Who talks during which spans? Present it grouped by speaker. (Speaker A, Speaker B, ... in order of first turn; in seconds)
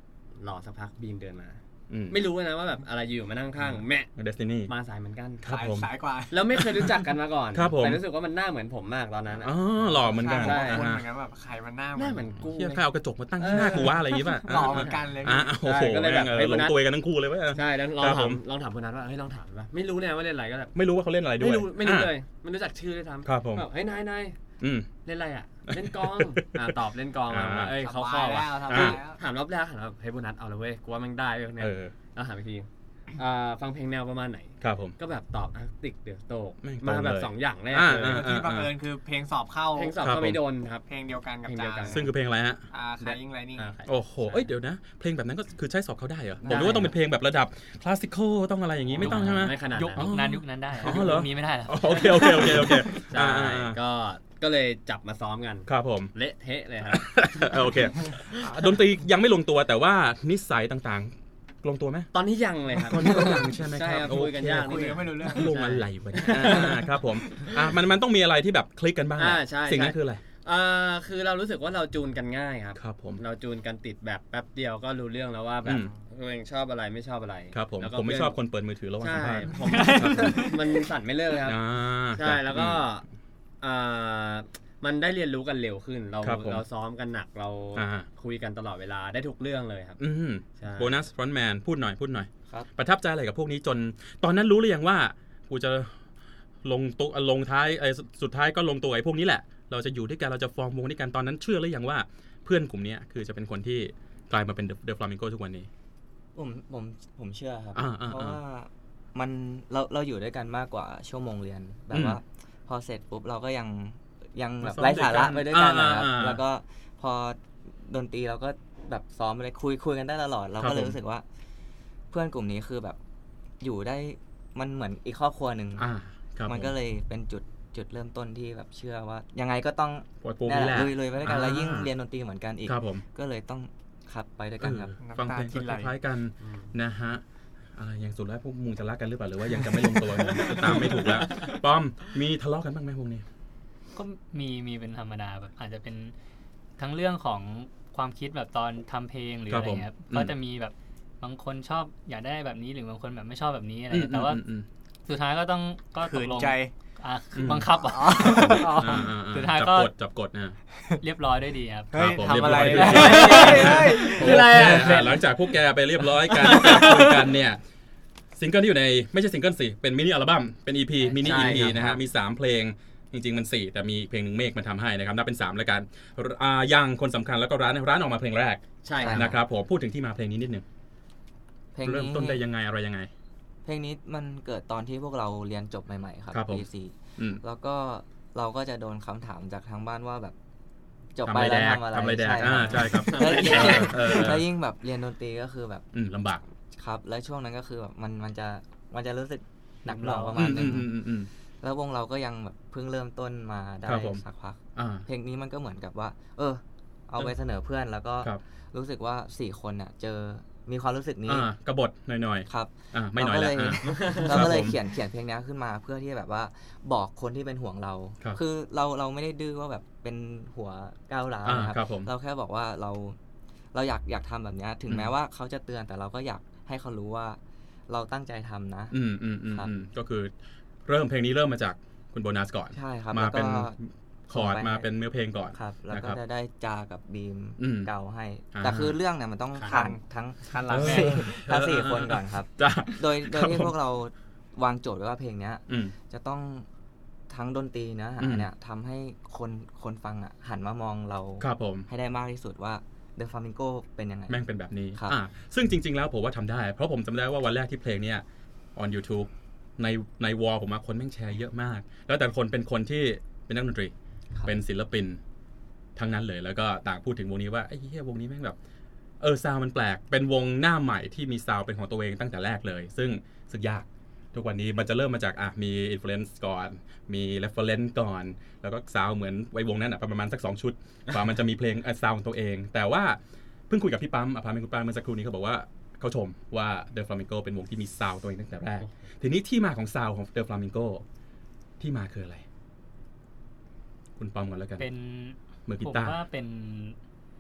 Speaker A: 0.4-4.1, 4.7-5.4, 6.3-10.9, 11.9-12.8, 13.4-15.0, 15.5-16.8, 17.5-20.7, 21.4-24.4, 25.0-38.2, 39.7-40.9, 41.4-42.0, 43.0-44.5, 46.4-46.9, 48.9-50.1, 52.4-57.1, 62.1-66.8, 69.2-78.4, 79.0-81.6, 82.1-83.0, 83.6-90.0, 90.5-90.9, 136.4-136.7, 162.7-165.2, 166.3-167.1, 171.2-171.9, 178.8-179.3, 192.7-194.3, 213.8-214.4, 239.5-239.9
Speaker B: 1.9-2.2, 4.2-4.7, 5.4-5.9, 7.5-8.0, 9.4-11.0, 12.5-18.4, 20.7-22.1, 23.2-23.6, 24.6-24.9, 25.7-26.7, 27.3-27.7, 28.7-29.0, 31.6-31.9, 34.6-35.0, 36.6-38.7, 40.0-40.4, 41.9-42.6, 43.8-53.8, 55.7-56.1, 56.9-62.1, 62.9-70.2, 72.8-73.2, 75.6-75.9, 77.5-80.5, 81.4-82.8, 86.2-86.6, 87.7-88.1, 90.0-96.0, 96.6-105.7, 107.7-108.4, 111.9-112.2, 114.6-116.4, 120.6-121.0, 125.8-126.7, 130.2-131.9, 132.7-133.0, 134.6-137.2, 137.7-143.2, 149.5-150.3, 153.9-154.7, 157.3-160.6, 161.9-167.6, 168.3-180.6, 181.8-183.1, 186.3-186.6, 191.2-194.4, 195.9-196.4, 200.3-201.3, 203.8-204.2, 204.8-205.1, 211.3-214.8, 221.4-222.1, 228.9-230.3, 230.8-233.8, 234.3-236.2, 237.6-237.9, 238.5-239.0, 240.7-243.7, 245.7-245.9, 248.2-248.5, 251.4-251.9, 254.3-258.2, 258.7-263.9, 264.4-265.2, 265.9-268.6, 269.2-291.0, 291.8-292.4, 294.2-294.9, 295.7-296.2
Speaker C: 5.4-6.4, 10.0-12.3, 13.5-15.5, 27.8-29.2, 38.0-40.0, 40.9-42.1, 42.7-43.8, 64.4-65.6, 135.0-136.0, 140.2-141.0, 156.1-156.7, 157.8-159.1, 161.9-165.2, 166.4-167.1, 239.7-241.4
Speaker D: 46.5-46.8, 106.3-121.2, 122.1-123.0, 123.6-125.9, 126.5-134.9, 171.7-172.0, 179.0-179.4, 181.7-182.4, 183.6-190.3, 191.1-195.9, 196.7-201.0, 201.6-211.5, 212.5-223.2, 223.7-229.7, 232.7-233.8, 234.3-234.9, 235.5-246.7, 247.3-255.2
Speaker E: 49.0-52.9, 79.6-80.6, 143.9-146.1, 146.8-154.4, 155.1-159.9, 161.0-163.2, 171.0-171.8, 199.9-200.3, 294.8-296.9